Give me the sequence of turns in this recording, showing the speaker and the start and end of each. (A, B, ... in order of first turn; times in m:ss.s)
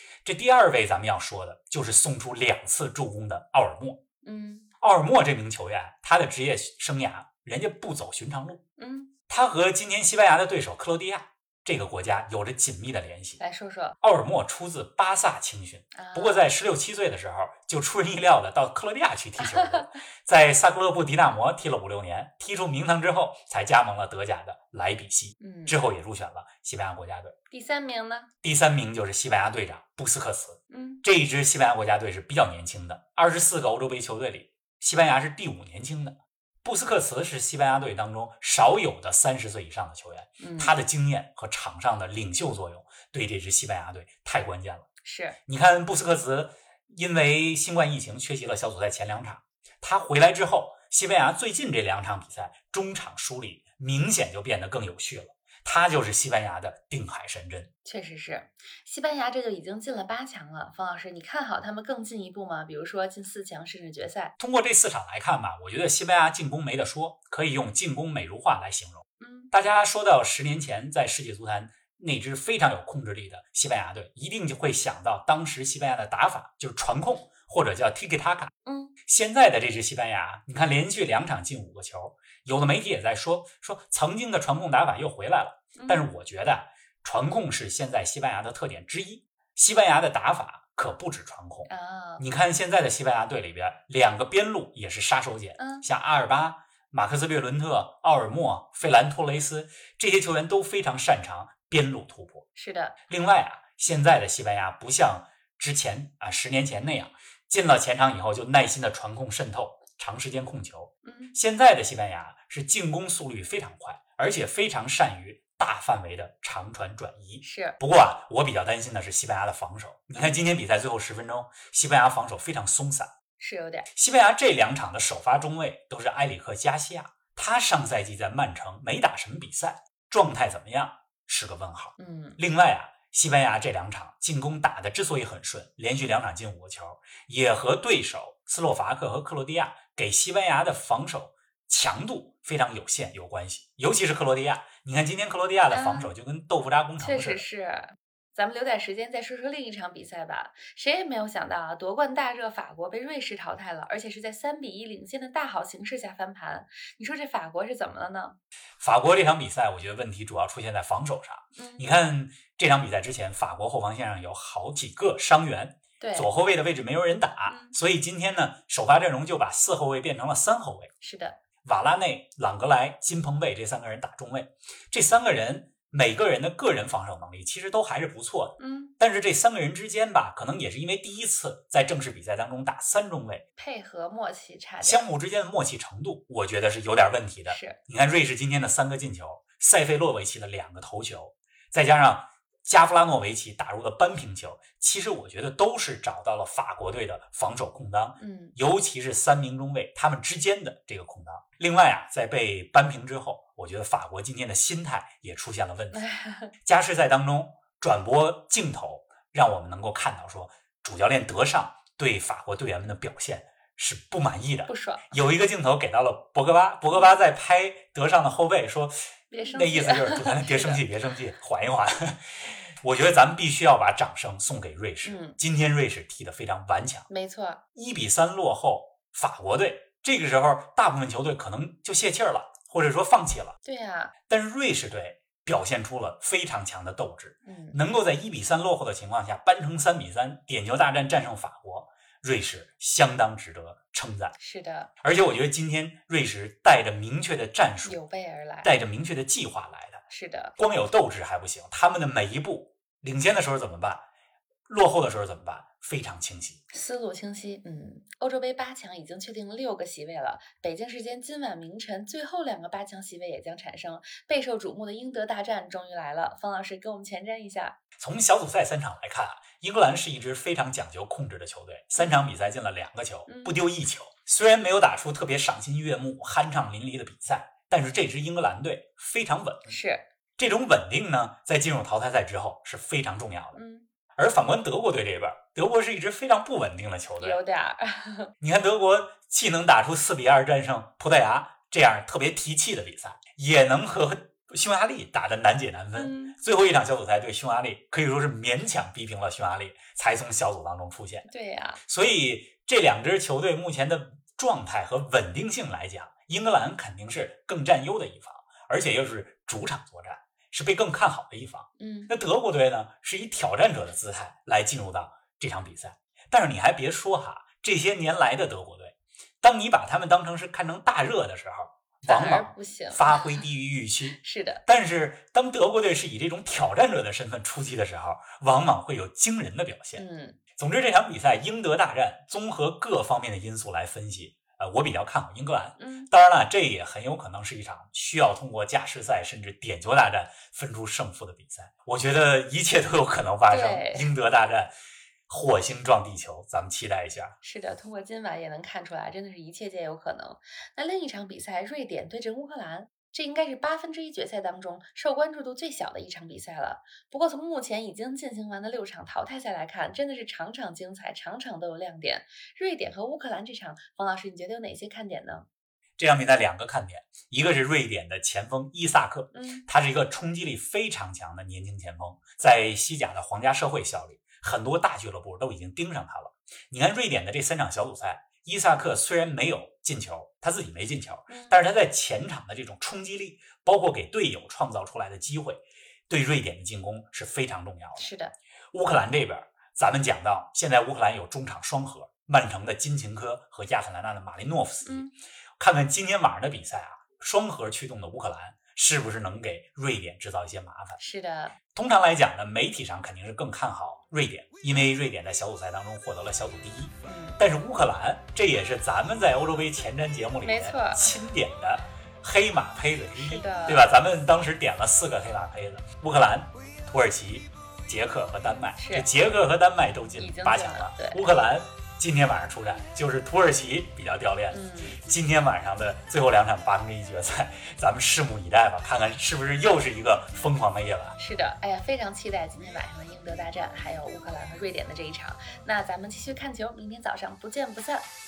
0:00.2-0:04.0 A
0:04.2-0:04.7 B
0:04.8-0:08.6 A
0:08.8-0:09.1 B
0:09.3-0:13.4 A
0:13.4-0:14.0 B
0:14.0-0:27.4 A
0:15.9-0:16.5 B
0:19.4-0:19.8 B
0:25.4-0:25.8 B
0:27.5-0:28.3 B
0:28.4-0:44.9 A
0:30.7-0:31.0 B
0:40.4-0:40.8 B
0:45.0-0:45.4 B
0:45.5-0:57.7 A
0:57.8-1:04.3 B
1:04.4-1:18.5 A
1:09.2-1:09.5 B
1:18.6-1:18.9 B
1:19.1-1:42.4 A
1:25.7-1:26.1 B
1:31.7-1:32.2 B
1:35.6-1:35.9 B
1:42.5-1:43.0 B
1:43.1-2:03.1 A
1:51.0-1:51.4 B
1:57.4-1:57.8 B
2:00.2-2:00.4 B
2:03.4-2:03.9 B
2:03.9-2:27.4 A
2:12.0-2:12.4 B
2:25.7-2:26.1 B
2:27.0-2:38.4 B
2:38.8-2:50.9 A
2:41.6-2:41.8 B
2:46.0-2:46.3 B
2:47.5-2:47.8 B
2:51.0-2:51.4 B
2:51.6-3:03.4 A
2:58.6-2:58.9 B
3:03.6-3:05.1 B
3:04.8-3:26.0 A
3:07.4-3:07.8 B
3:18.2-3:18.6 B
3:25.9-3:26.5 B
3:26.6-3:47.1 A
3:34.7-3:35.1 B
3:39.3-3:40.8 B
3:45.0-3:45.4 B
3:47.1-3:47.6 B
3:47.7-3:53.6 A
3:53.6-3:54.1 B
3:54.3-4:04.3 A
3:57.4-3:57.8 B
4:04.3-4:04.9 B
4:05.0-4:08.0 A
4:07.8-4:08.7 B
4:08.6-4:10.0 A
4:10.1-4:10.6 B
4:10.6-4:14.1 A
4:14.7-4:16.6 A
4:16.7-4:27.8 B
4:28.0-4:39.8 A
4:32.0-4:32.2 B
4:33.3-4:33.6 B
4:39.7-4:40.1 B
4:40.4-4:43.6 A
4:43.5-4:43.9 B
4:44.2-4:47.4 A
4:47.2-4:48.3 B
4:48.4-5:01.3 A
4:55.9-4:56.4 B
5:01.3-5:01.8 B
5:01.8-5:30.0 A
5:11.8-5:12.1 B
5:22.0-5:23.4 B
5:24.2-5:24.6 B
5:29.9-5:30.4 B
5:30.6-5:44.7 A
5:35.8-5:36.1 B
5:43.5-5:44.1 B
5:45.3-5:47.4 A
5:47.4-6:05.4 B
6:06.0-6:28.1 A
6:09.3-6:09.6 B
6:21.3-6:21.6 B
6:27.9-6:28.3 B
6:28.7-6:41.0 A
6:34.8-6:35.1 B
6:41.0-6:41.5 B
6:41.7-7:11.2 A
6:47.0-6:47.4 B
6:50.4-6:51.2 B
6:53.1-6:53.9 B
6:58.8-6:59.1 B
7:00.2-7:01.2 B
7:04.5-7:05.0 B
7:11.2-7:18.1 B